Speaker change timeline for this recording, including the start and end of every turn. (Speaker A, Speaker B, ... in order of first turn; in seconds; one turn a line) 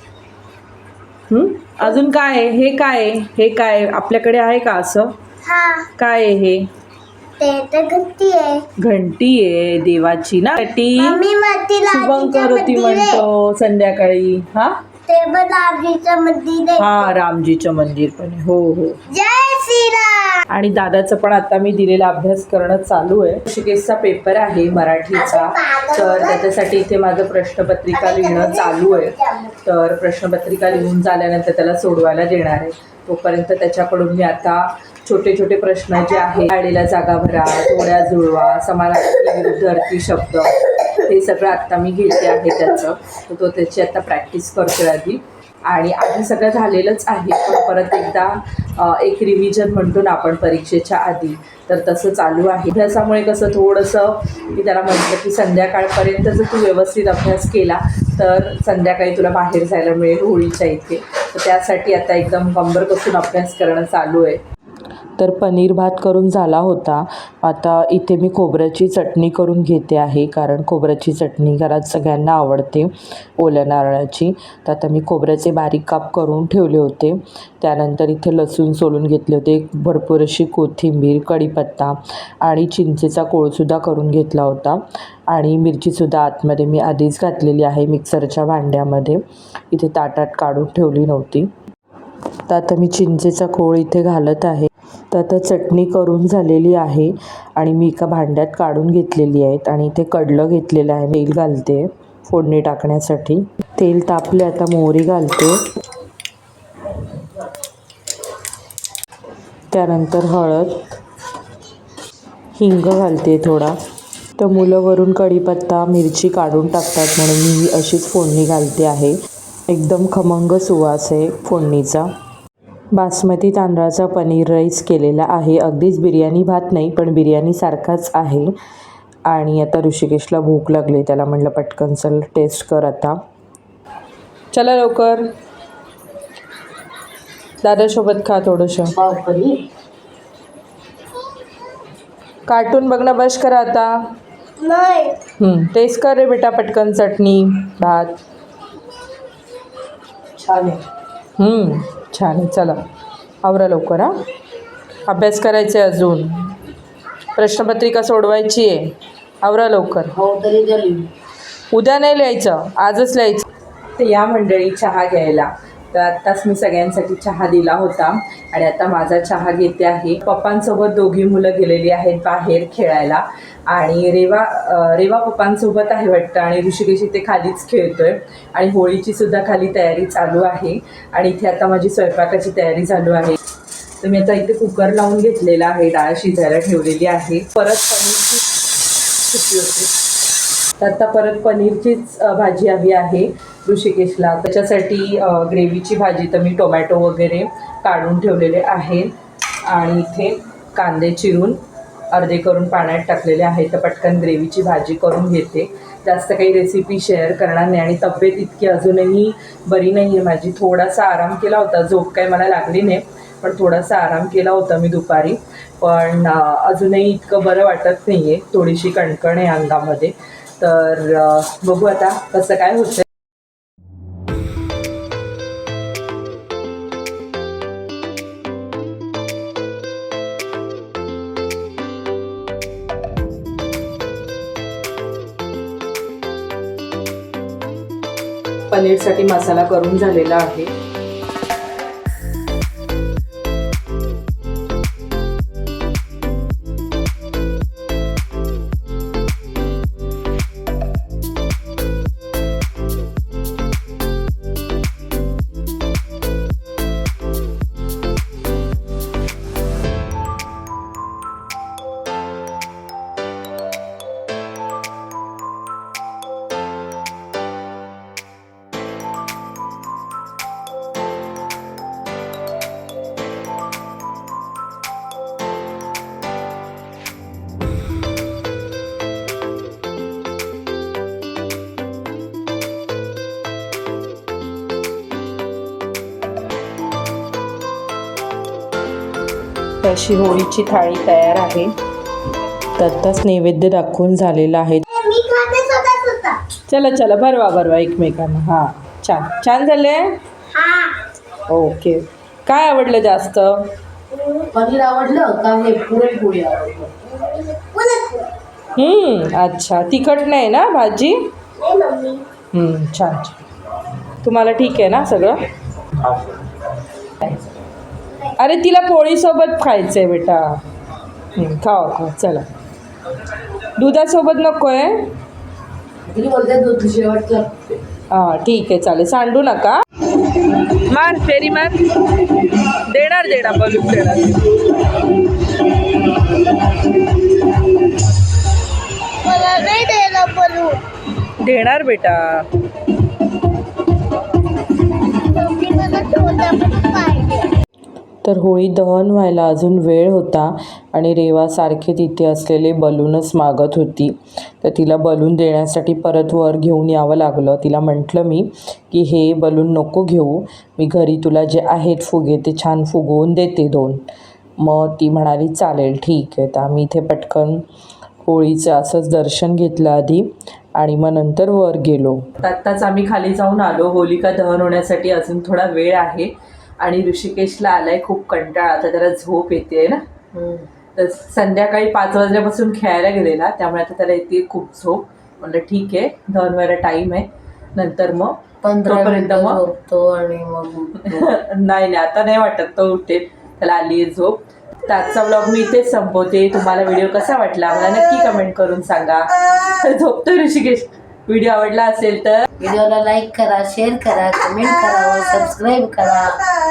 Speaker A: 1.3-5.1
Speaker B: 5.4-5.9
Speaker A: 6.0-6.7
Speaker B: 7.4-8.6
Speaker A: 8.8-11.3
Speaker B: 11.0-13.2
Speaker A: 11.9-14.8
Speaker B: 15.1-17.1
Speaker A: 16.8-19.0
Speaker B: 19.1-20.4
Speaker A: 20.5-64.4
Speaker B: 25.1-26.4
Speaker B: 27.9-29.6
Speaker A: 65.2-91.5
Speaker A: 92.5-105.6
Speaker A: 109.7-110.9
Speaker A: 112.5-113.8
Speaker A: 114.4-119.2
Speaker A: 119.7-122.1
Speaker A: 122.9-128.5
Speaker A: 129.3-133.2
Speaker A: 134.5-135.3
Speaker A: 137.6-138.9
Speaker C: 138.9-139.6
Speaker A: 142.5-144.1
Speaker B: 144.6-145.2
Speaker A: 145.4-148.2
Speaker C: 150.4-150.8
Speaker A: 151.4-152.8
Speaker A: 153.4-154.2
Speaker A: 155.1-156.6
Speaker A: 157.3-160.1
Speaker C: 160.1-161.1
Speaker A: 161.7-183.4
Speaker A: 184.0-188.6
Speaker A: 189.2-189.9
Speaker A: 190.8-199.1
Speaker A: 199.6-223.1
Speaker A: 238.7-240.7
Speaker A: 289.8-291.7
Speaker A: 292.8-294.8
Speaker B: 294.9-296.4
Speaker A: 296.7-300.2
Speaker B: 300.5-301.0
Speaker A: 301.5-303.7
Speaker B: 304.1-304.5
Speaker C: 304.5-306.9
Speaker B: 307.0-308.3
Speaker A: 308.8-311.3
Speaker B: 311.6-312.2
Speaker A: 312.5-313.4
Speaker A: 314.2-315.4
Speaker A: 318.4-320.6
Speaker A: 321.3-322.4
Speaker A: 323.8-325.1
Speaker C: 326.1-327.7
Speaker A: 328.1-329.8
Speaker A: 330.9-331.9
Speaker A: 332.9-334.5
Speaker B: 339.2-340.8
Speaker A: 341.4-342.5
Speaker B: 345.1-347.5
Speaker A: 348.2-364.0
Speaker A: 364.6-367.6
Speaker A: 368.2-380.0
Speaker C: 380.3-380.6
Speaker A: 380.9-389.6
Speaker C: 388.6-391.3
Speaker A: 391.0-402.4
Speaker C: 402.6-406.4